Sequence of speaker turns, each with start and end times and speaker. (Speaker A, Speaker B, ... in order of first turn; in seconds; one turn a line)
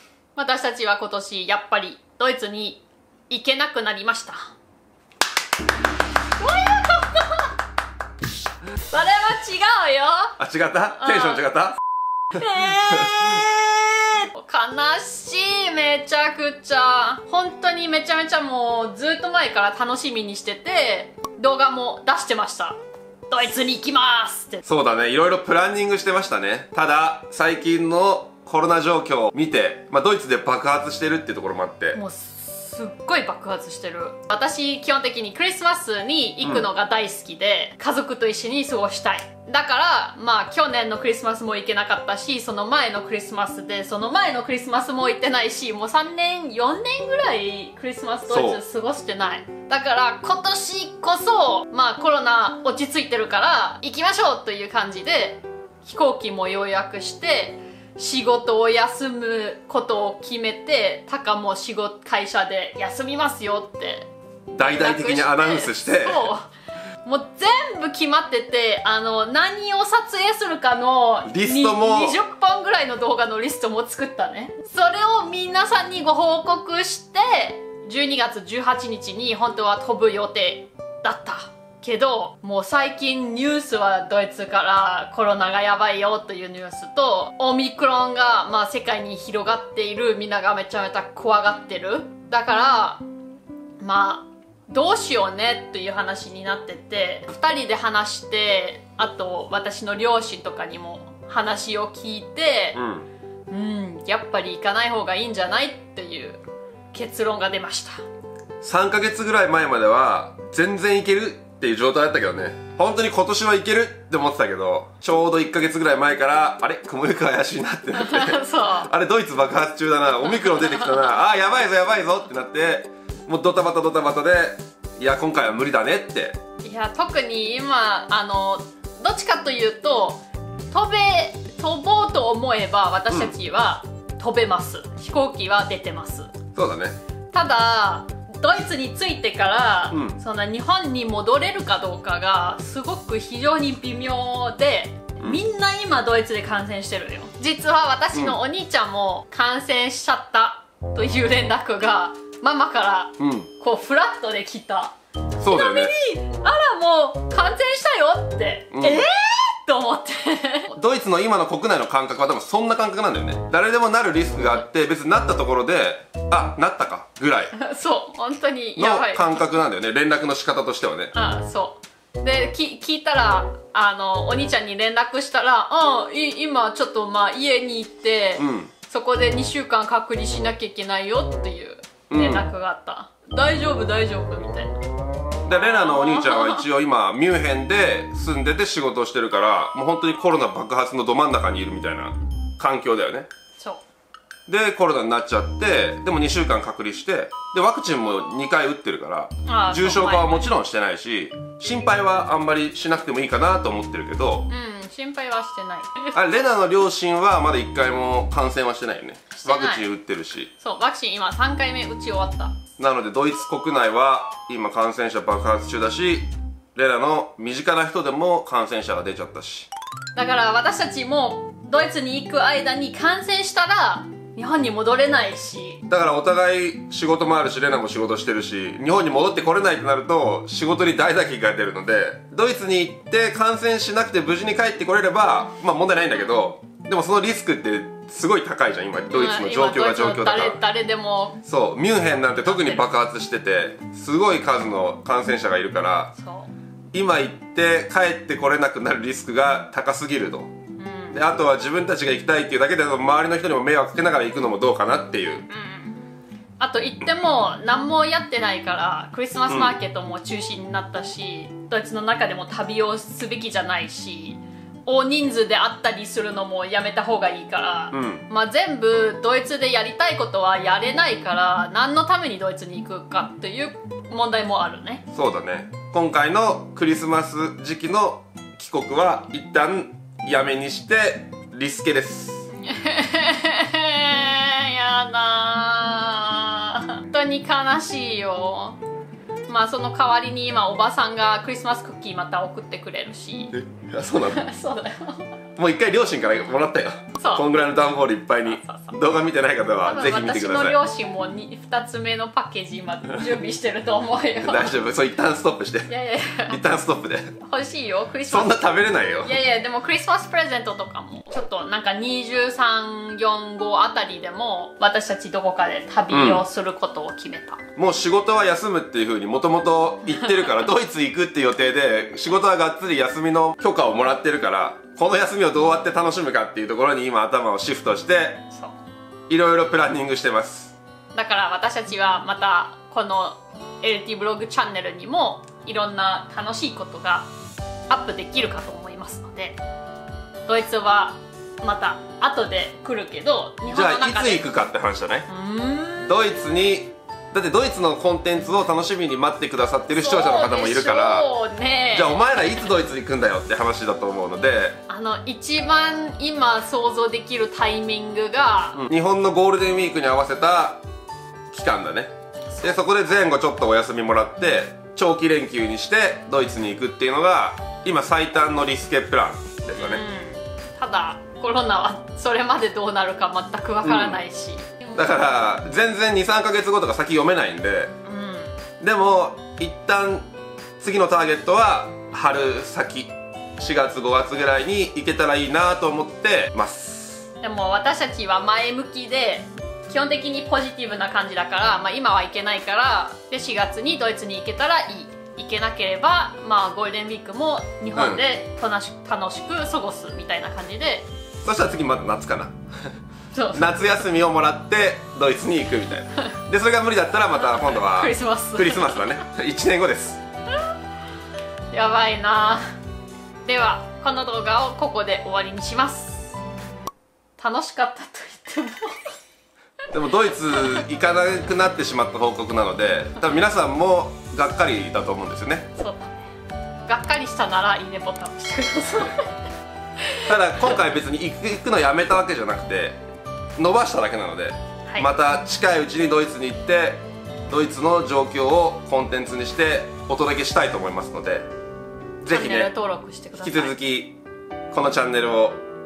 Speaker A: 0.3-4.5
Speaker A: 6.4-7.5
Speaker A: 8.8-10.3
Speaker B: 10.4-11.8
Speaker A: 11.0-11.4
Speaker A: 12.3-22.8
Speaker A: 23.3-24.6
Speaker B: 24.6-32.0
Speaker A: 31.9-66.5
Speaker B: 48.3-48.6
Speaker B: 64.5-66.3
Speaker A: 67.0-93.0
Speaker B: 71.3-72.2
Speaker A: 93.8-102.8
Speaker B: 102.8-103.1
Speaker A: 103.5-106.4
Speaker A: 106.9-108.0
Speaker B: 108.6-126.4
Speaker A: 117.9-118.9
Speaker A: 120.5-121.1
Speaker A: 126.6-130.2
Speaker A: 130.7-136.3
Speaker B: 136.5-137.0
Speaker A: 137.3-160.8
Speaker B: 139.9-140.2
Speaker B: 153.2-153.5
Speaker B: 155.4-155.9
Speaker B: 158.7-159.1
Speaker B: 160.8-167.5
Speaker A: 167.6-169.3
Speaker B: 168.8-171.1
Speaker A: 171.1-184.7
Speaker B: 178.4-178.7
Speaker B: 182.1-182.5
Speaker B: 185.4-193.3
Speaker A: 185.5-186.6
Speaker A: 193.6-193.8
Speaker B: 194.5-204.5
Speaker A: 199.5-200.5
Speaker A: 204.5-206.2
Speaker B: 206.2-210.5
Speaker A: 209.3-209.9
Speaker A: 210.6-212.6
Speaker B: 212.8-219.7
Speaker A: 220.2-225.8
Speaker B: 225.9-240.6
Speaker A: 239.1-241.4
Speaker B: 241.4-246.1
Speaker A: 242.4-242.9
Speaker A: 246.2-246.5
Speaker B: 246.9-250.5
Speaker A: 250.8-251.2
Speaker B: 251.1-255.4
Speaker A: 255.5-256.0
Speaker A: 256.6-275.0
Speaker B: 259.5-259.7
Speaker B: 267.9-268.2
Speaker B: 275.1-282.5
Speaker A: 282.6-288.8
Speaker A: 289.5-293.5
Speaker B: 293.5-294.4
Speaker A: 294.2-295.2
Speaker B: 295.6-300.8
Speaker A: 297.2-297.5
Speaker A: 298.4-298.9
Speaker A: 299.8-304.7
Speaker B: 304.4-305.9
Speaker A: 305.9-306.6
Speaker B: 306.5-307.4
Speaker A: 307.4-308.6
Speaker B: 308.3-309.3
Speaker A: 309.2-317.6
Speaker B: 316.1-316.4
Speaker B: 317.8-328.5
Speaker A: 320.2-320.5
Speaker B: 329.3-330.8
Speaker A: 331.1-337.3
Speaker A: 337.9-339.6
Speaker A: 340.5-344.4
Speaker B: 343.7-345.3
Speaker A: 345.3-346.2
Speaker B: 346.1-351.3
Speaker A: 349.9-352.2
Speaker B: 351.9-354.8
Speaker A: 354.9-358.8
Speaker B: 358.8-360.8
Speaker B: 361.5-370.0
Speaker A: 369.8-375.2
Speaker B: 373.8-374.2
Speaker B: 374.9-377.9
Speaker A: 378.1-378.5
Speaker B: 378.8-380.3
Speaker B: 380.8-387.3
Speaker A: 387.4-401.1
Speaker B: 397.9-398.2
Speaker B: 401.4-402.6
Speaker A: 403.3-404.0
Speaker B: 403.5-410.2
Speaker A: 407.4-409.2
Speaker A: 411.7-412.6
Speaker A: 413.4-416.4
Speaker A: 417.4-419.0
Speaker B: 419.9-425.7
Speaker A: 425.8-426.1
Speaker A: 426.9-429.3
Speaker A: 430.1-430.6
Speaker B: 430.2-433.0
Speaker B: 433.6-441.5
Speaker B: 442.2-442.7
Speaker A: 442.3-443.8
Speaker B: 443.4-444.2
Speaker B: 444.7-445.6